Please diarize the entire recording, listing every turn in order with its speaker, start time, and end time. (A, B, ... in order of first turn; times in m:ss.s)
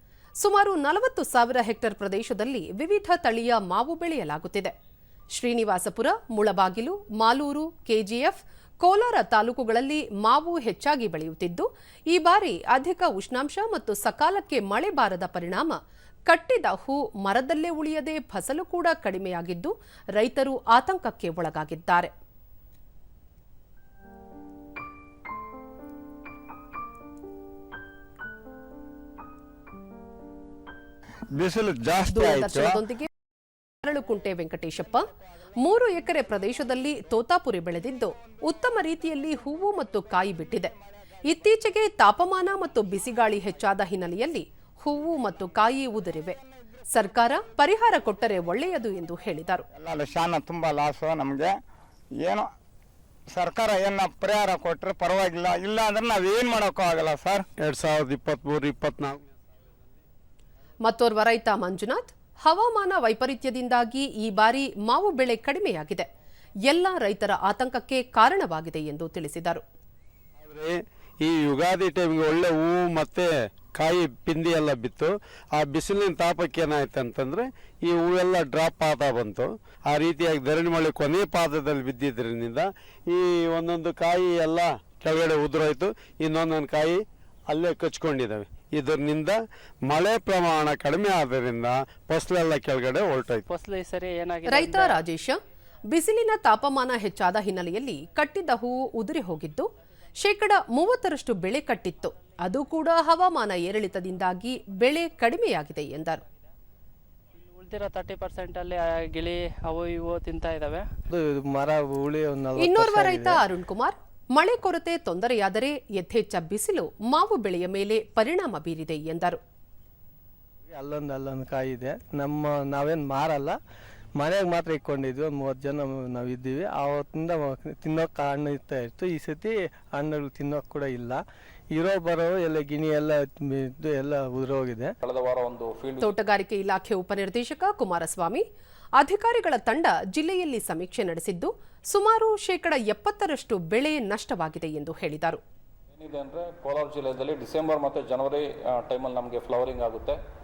0:00.4-0:04.7 A
0:05.3-0:15.8 A
0:16.3-0:22.1 A
0:31.3-0:32.8 B
0:32.1-0:33.1 A
0:33.8-0:35.0 A
0:35.6-0:40.7 A
0:41.3-0:46.4 A
0:46.9-0:49.7 A
0:49.7-0:51.6 B
0:52.2-0:52.5 B
0:53.3-0:57.4 B
0:57.6-0:59.3 C
1:00.8-1:06.1 A
1:06.7-1:09.6 A
1:10.4-1:33.4 C
1:33.5-1:35.0 D
1:34.5-1:39.7 A
1:40.2-1:46.2 A
1:47.5-1:50.9 D
1:51.1-1:53.4 E
1:52.6-1:59.4 A
2:00.7-2:03.6 E
2:04.2-2:14.9 E
2:15.0-2:16.1 F
2:16.0-2:18.4 A
2:19.0-2:25.4 A
2:25.9-2:30.2 F